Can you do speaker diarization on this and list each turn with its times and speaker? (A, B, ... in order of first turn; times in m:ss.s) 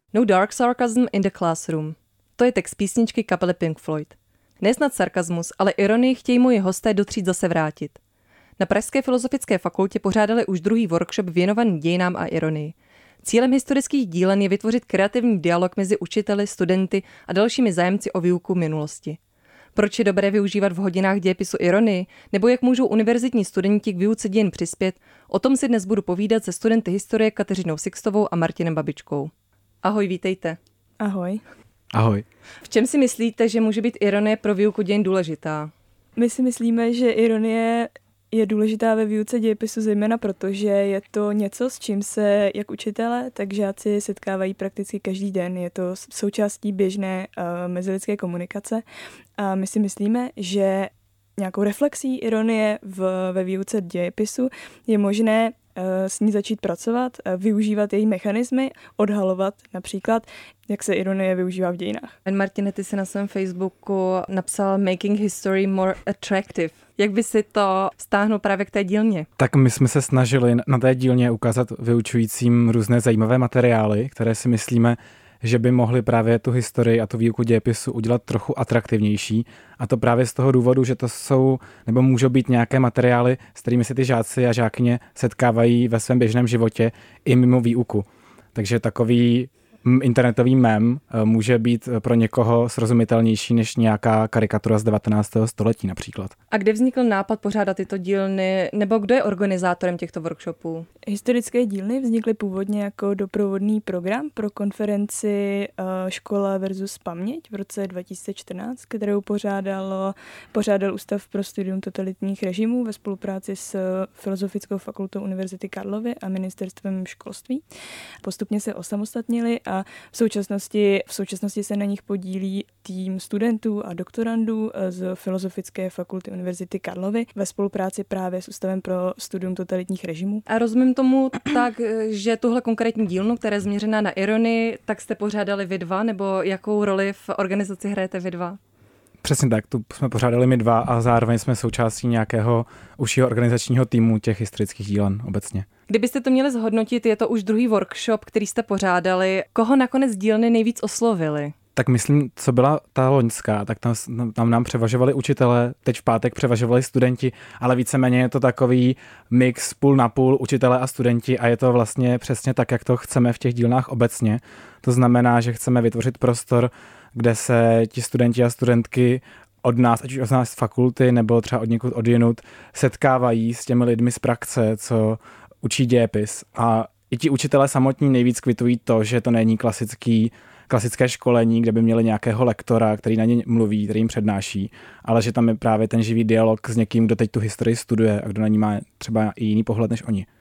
0:00.1-0:08.0 A
0:08.6-0:19.2 A
0:19.8-0:29.3 A
0:29.8-0:30.6 A
0:31.0-0:31.4 B
0:31.9-0:32.2 C
0:32.6-0:35.7 A
0:36.2-0:48.8 B
0:49.4-1:02.2 B
1:02.3-1:09.3 A
1:09.4-1:36.3 C
1:36.5-1:40.9 A
1:41.1-1:57.6 B
1:58.2-2:10.4 B
2:10.5-2:18.6 A
2:19.2-2:25.7 C
2:25.9-2:31.5 A
2:31.8-3:10.3 C